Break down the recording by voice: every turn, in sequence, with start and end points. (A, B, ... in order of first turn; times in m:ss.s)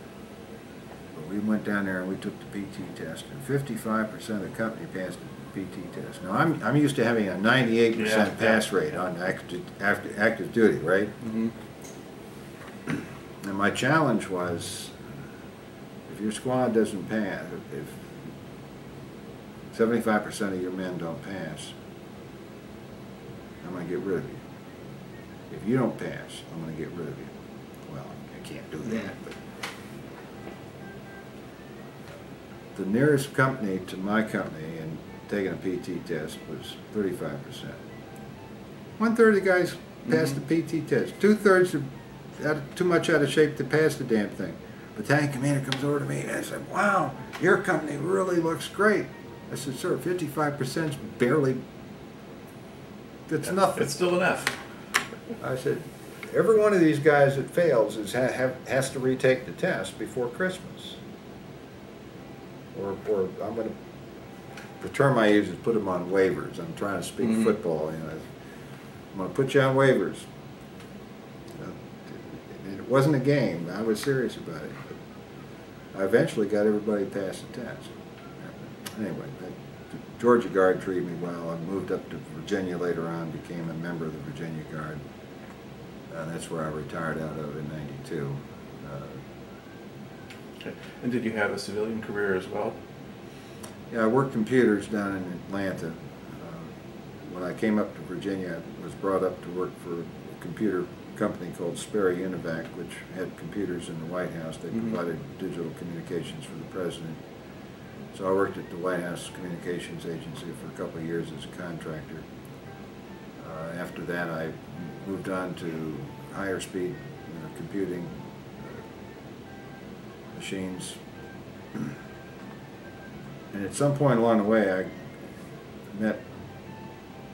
0:01.2-0:11.2 A
0:08.0-0:08.5 B
0:11.2-0:11.5 B
0:13.4-0:15.0 A
0:16.1-0:18.1 A
0:19.7-0:21.8 A
0:23.6-0:24.4 A
0:25.5-0:27.3 A
0:27.9-0:29.4 A
0:32.7-0:37.8 A
0:39.0-0:41.8 A
0:42.4-0:51.6 A
0:53.3-0:53.9 A
0:53.7-0:54.6 B
0:55.4-1:01.0 A
1:02.7-1:03.7 A
1:04.8-1:08.3 A
1:09.1-1:10.3 A
1:11.6-1:15.0 A
1:15.9-1:25.0 A
1:26.1-1:29.2 A
1:30.6-1:32.8 B
1:33.9-1:36.7 A
1:37.3-1:47.2 A
1:48.1-1:52.2 A
1:53.4-1:58.8 A
2:00.3-2:01.0 A
2:03.5-2:04.9 A
2:05.9-2:06.2 A